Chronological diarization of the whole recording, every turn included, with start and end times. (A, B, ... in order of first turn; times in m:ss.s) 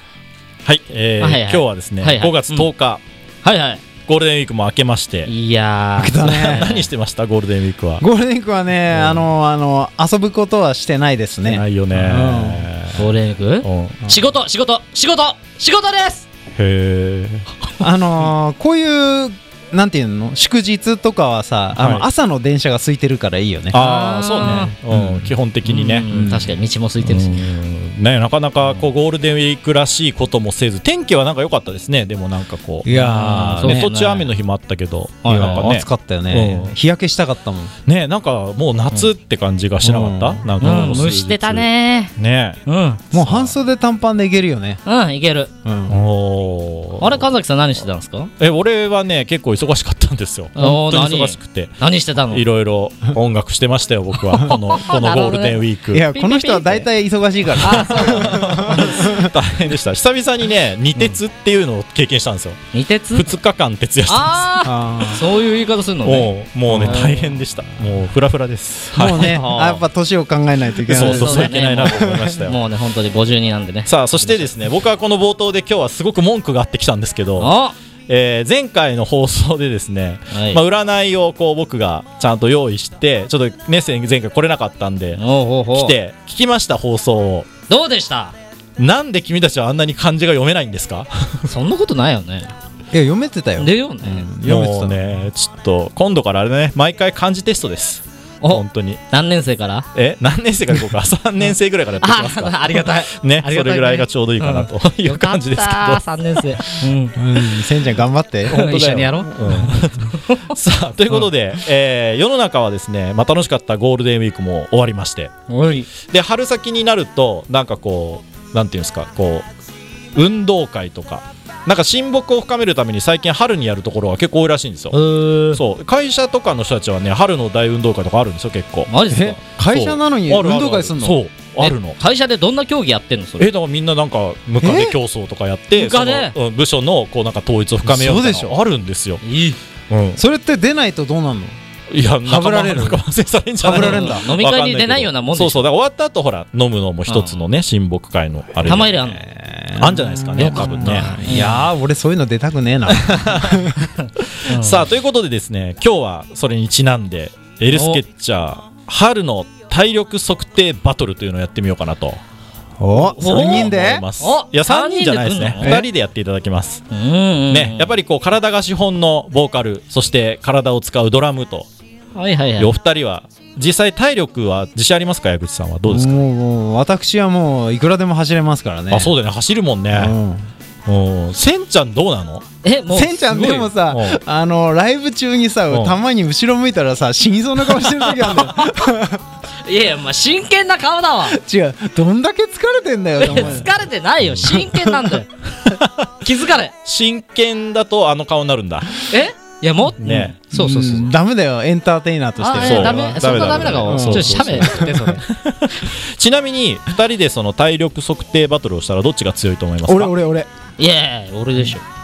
0:00.6-0:03.0 A
0:01.2-0:02.7 B
0:03.4-0:03.8 B
0:04.1-0:05.3 A
0:05.3-0:06.9 B
0:06.0-0:06.7 C
0:06.2-0:08.0 A
0:08.0-0:12.7 C
0:08.9-0:09.2 A
0:11.5-0:13.1 A
0:12.9-0:16.3 B
0:13.6-0:14.0 A
0:16.6-0:17.5 A
0:17.8-0:23.8 C
0:21.8-0:22.0 A
0:23.7-0:26.1 A
0:23.7-0:24.7 B
0:24.4-0:25.3 C
0:25.6-0:27.5 B
0:26.1-0:26.5 C
0:27.0-0:32.9 A
0:32.8-0:33.9 C
0:32.9-0:34.3 B
0:33.4-0:36.8 A
0:35.2-0:35.7 B
0:35.3-0:37.7 C
0:37.9-0:42.6 A
0:39.8-0:40.4 C
0:40.6-0:42.1 B
0:42.7-0:43.0 B
0:43.1-0:43.6 A
0:43.1-0:44.8 C
0:44.9-0:45.5 B
0:45.6-0:46.0 C
0:45.9-0:47.3 A
0:47.0-0:48.3 B
0:48.4-0:51.8 A
0:50.6-0:52.4 B
0:52.3-0:56.0 A
0:54.4-0:56.9 B
0:55.9-0:59.3 C
0:57.6-0:59.1 B
0:57.6-1:02.6 A
1:02.7-1:03.3 B
1:03.1-1:04.5 A
1:04.1-1:07.3 B
1:04.6-1:05.2 C
1:06.0-1:09.8 A
1:06.7-1:07.1 C
1:08.9-1:12.4 C
1:09.1-1:09.8 B
1:10.9-1:12.6 A
1:10.9-1:14.5 B
1:13.9-1:17.5 A
1:17.4-1:17.8 B
1:18.1-1:25.2 A
1:20.3-1:20.6 B
1:25.2-1:26.0 B
1:25.7-1:27.5 A
1:27.7-1:28.4 B
1:28.8-1:31.4 A
1:31.5-1:32.5 B
1:32.9-1:35.0 C
1:33.6-1:34.3 B
1:34.4-1:39.0 A
1:38.4-1:39.9 B
1:40.0-1:46.0 A
1:42.0-1:47.2 B
1:47.2-1:48.6 C
1:48.5-1:55.3 A
1:48.5-1:50.6 B
1:55.5-1:55.9 B
1:56.1-1:59.5 A
2:00.1-2:05.0 A
2:04.9-2:05.6 B
2:05.5-2:08.9 A
2:08.9-2:09.4 B
2:09.1-2:11.2 C
2:09.6-2:12.0 A
2:11.6-2:13.5 B
2:13.4-2:19.2 A
2:14.6-2:15.0 C
2:15.8-2:16.4 B
2:17.8-2:18.6 C
2:19.2-2:19.6 B
2:19.9-2:20.2 A
2:20.2-2:21.6 C
2:21.9-2:29.1 A
2:22.2-2:23.0 C
2:23.6-2:24.3 C
2:23.7-2:25.6 B
2:27.1-2:27.4 B
2:28.6-2:29.2 B
2:29.2-2:33.9 C
2:29.8-2:31.2 A
2:30.4-2:31.6 B
2:32.9-2:33.7 A
2:34.0-2:34.9 B
2:34.2-2:42.2 A
2:37.7-2:38.0 B
2:42.8-2:44.0 C
2:42.9-2:46.8 A
2:43.2-2:45.8 B
2:45.6-2:45.9 C
2:46.9-2:47.9 B
2:47.5-2:51.7 A
2:52.2-2:52.7 B
2:52.6-2:56.2 A
2:55.9-2:59.1 C
2:58.9-3:00.1 A
2:59.9-3:00.5 C
3:00.9-3:02.4 A
3:02.6-3:03.7 B
3:02.9-3:09.2 C
3:03.9-3:04.2 A
3:07.8-3:08.5 A
3:09.6-3:11.4 B
3:11.3-3:13.7 C
3:13.2-3:15.3 B
3:14.5-3:15.2 C
3:15.7-3:16.1 A
3:16.2-3:16.7 B
3:16.8-3:18.9 A
3:19.1-3:21.1 B
3:20.0-3:20.4 A
3:20.5-3:25.1 C
3:22.4-3:25.2 B
3:22.6-3:30.1 A
3:29.8-3:30.5 C
3:30.8-3:31.8 B